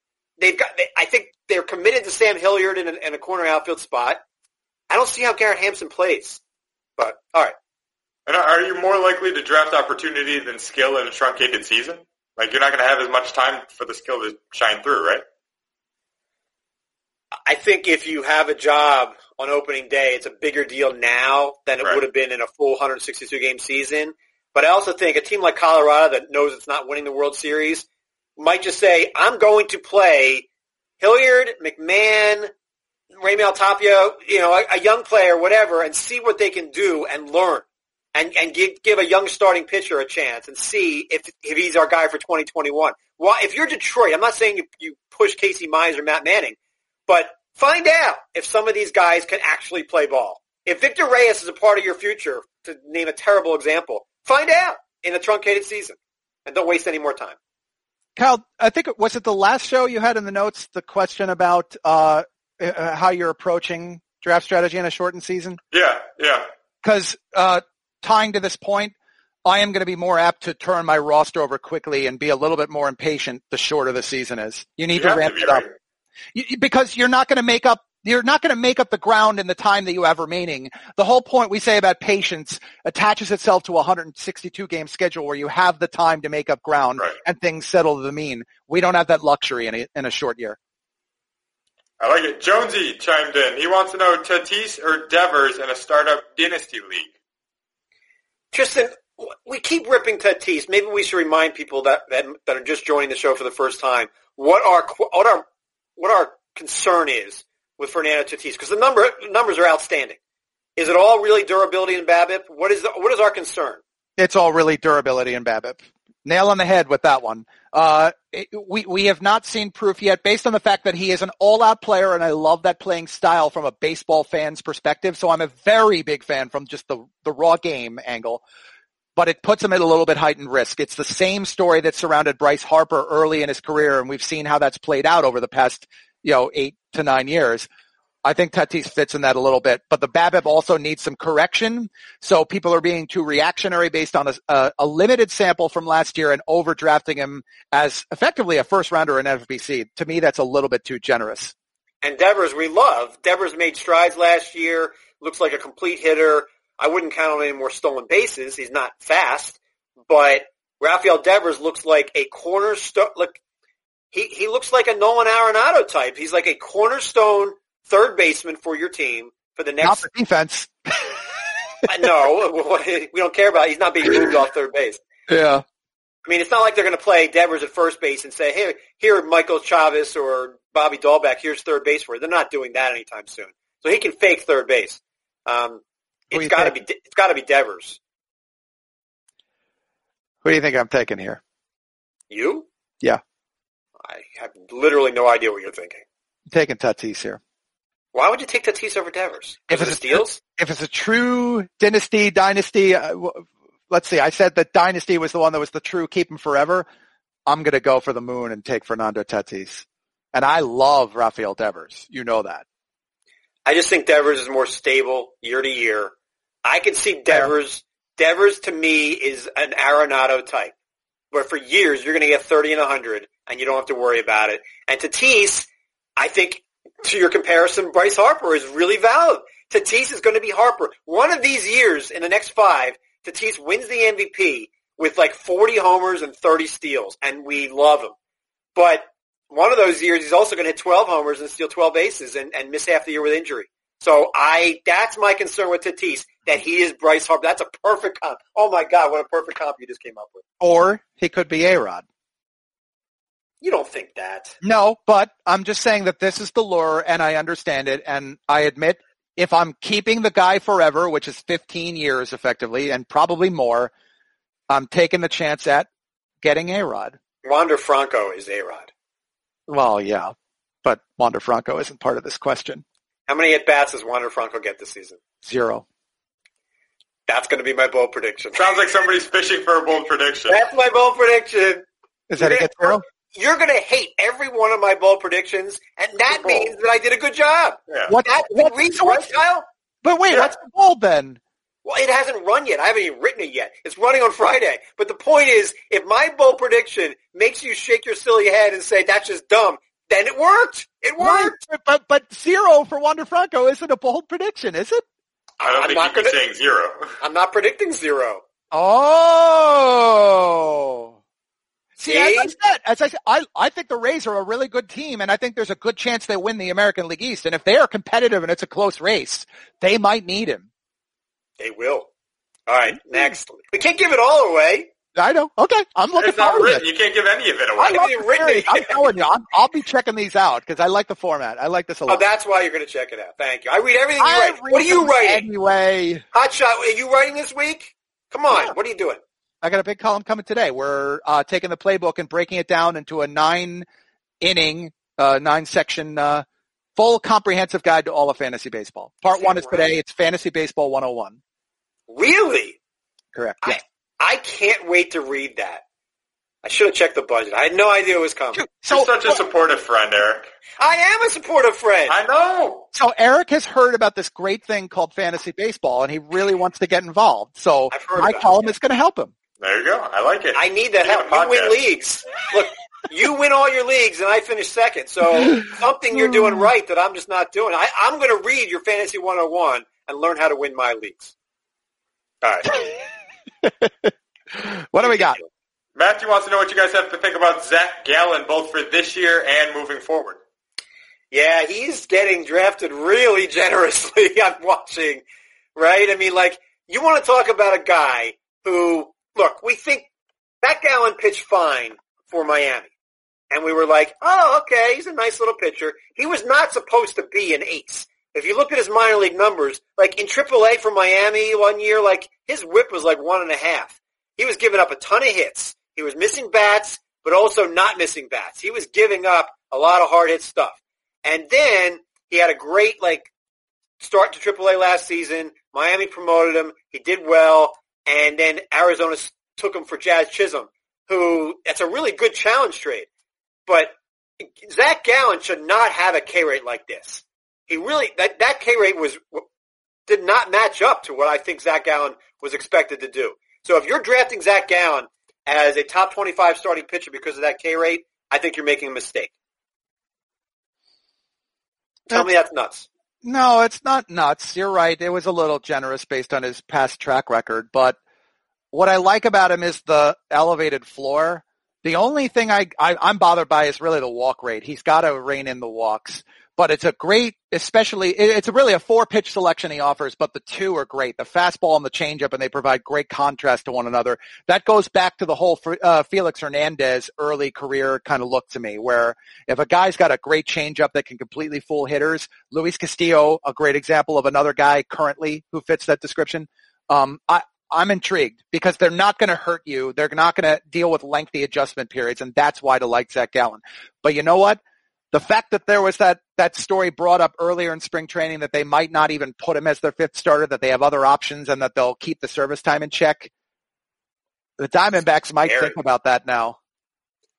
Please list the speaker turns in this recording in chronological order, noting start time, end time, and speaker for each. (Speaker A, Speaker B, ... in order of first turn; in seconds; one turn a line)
Speaker A: 0.4-4.2
Speaker A: 4.9-6.4
Speaker A: 7.0-7.5
Speaker B: 8.2-15.2
Speaker A: 17.4-27.8
Speaker A: 28.4-30.5
Speaker A: 31.0-32.5
Speaker A: 33.2-46.5
Speaker A: 47.1-57.4
Speaker C: 58.1-65.6
Speaker B: 65.7-66.4
Speaker C: 66.8-68.9
Speaker C: 69.4-75.7
Speaker B: 74.9-75.7
Speaker C: 76.3-90.6
Speaker B: 92.0-97.1
Speaker A: 98.5-105.4
Speaker A: 106.0-110.2
Speaker A: 110.8-113.8
Speaker C: 114.2-128.4
Speaker C: 129.2-137.7
Speaker C: 138.2-151.5
Speaker A: 152.0-163.4
Speaker A: 164.1-170.0
Speaker C: 169.8-171.2
Speaker A: 171.9-175.0
Speaker C: 175.3-175.6
Speaker A: 176.2-188.0
Speaker C: 186.3-186.8
Speaker C: 190.4-191.4
Speaker A: 192.3-192.7
Speaker A: 194.0-196.0
Speaker C: 196.5-197.4
Speaker A: 198.1-200.4
Speaker C: 199.7-206.8
Speaker C: 207.5-212.6
Speaker A: 213.7-216.1
Speaker A: 216.6-220.7
Speaker A: 221.3-238.1
Speaker A: 238.7-250.4
Speaker C: 250.6-252.0
Speaker A: 253.6-254.6
Speaker C: 254.6-263.9
Speaker C: 264.7-265.9
Speaker C: 266.4-267.2
Speaker A: 267.4-268.9
Speaker C: 269.7-270.3
Speaker C: 270.8-272.8
Speaker A: 273.3-275.2
Speaker C: 275.4-275.8
Speaker A: 277.3-278.7
Speaker B: 278.6-280.6
Speaker A: 280.5-281.9
Speaker C: 282.3-283.0
Speaker A: 282.4-289.6
Speaker B: 286.3-286.7
Speaker C: 288.1-289.4
Speaker C: 290.0-291.4
Speaker A: 291.8-301.6
Speaker C: 301.2-305.0
Speaker A: 305.6-306.4
Speaker B: 305.6-307.1
Speaker A: 307.2-308.4
Speaker C: 308.7-311.2
Speaker C: 312.0-320.7
Speaker A: 312.0-312.5
Speaker A: 321.6-322.1
Speaker A: 322.7-324.9
Speaker C: 325.1-326.8
Speaker B: 326.2-328.0
Speaker A: 327.8-329.0
Speaker C: 327.8-332.2
Speaker A: 332.1-335.4
Speaker C: 334.2-336.2
Speaker A: 336.3-339.2
Speaker C: 338.5-338.7
Speaker C: 339.6-343.8
Speaker C: 344.4-346.4
Speaker C: 347.0-351.4
Speaker A: 349.3-349.9
Speaker A: 352.1-352.8
Speaker C: 353.3-353.8
Speaker A: 353.6-355.8
Speaker A: 356.6-358.6
Speaker C: 358.5-359.4
Speaker B: 358.9-360.5
Speaker A: 360.8-362.1
Speaker B: 362.1-362.9
Speaker C: 362.9-369.3
Speaker A: 367.9-368.7
Speaker B: 369.6-371.8
Speaker A: 370.5-381.3
Speaker C: 375.5-376.6
Speaker A: 382.4-382.7
Speaker C: 383.6-385.4
Speaker A: 385.0-385.5
Speaker B: 385.9-390.4
Speaker A: 391.3-395.2
Speaker A: 395.8-400.1
Speaker A: 400.6-402.9
Speaker A: 403.5-423.3
Speaker A: 424.0-433.1
Speaker A: 433.7-433.9
Speaker A: 434.6-439.4
Speaker A: 440.1-449.3
Speaker A: 452.1-452.9
Speaker C: 453.2-458.0
Speaker C: 458.7-494.6
Speaker C: 495.1-503.3
Speaker C: 504.6-506.6
Speaker A: 505.4-505.8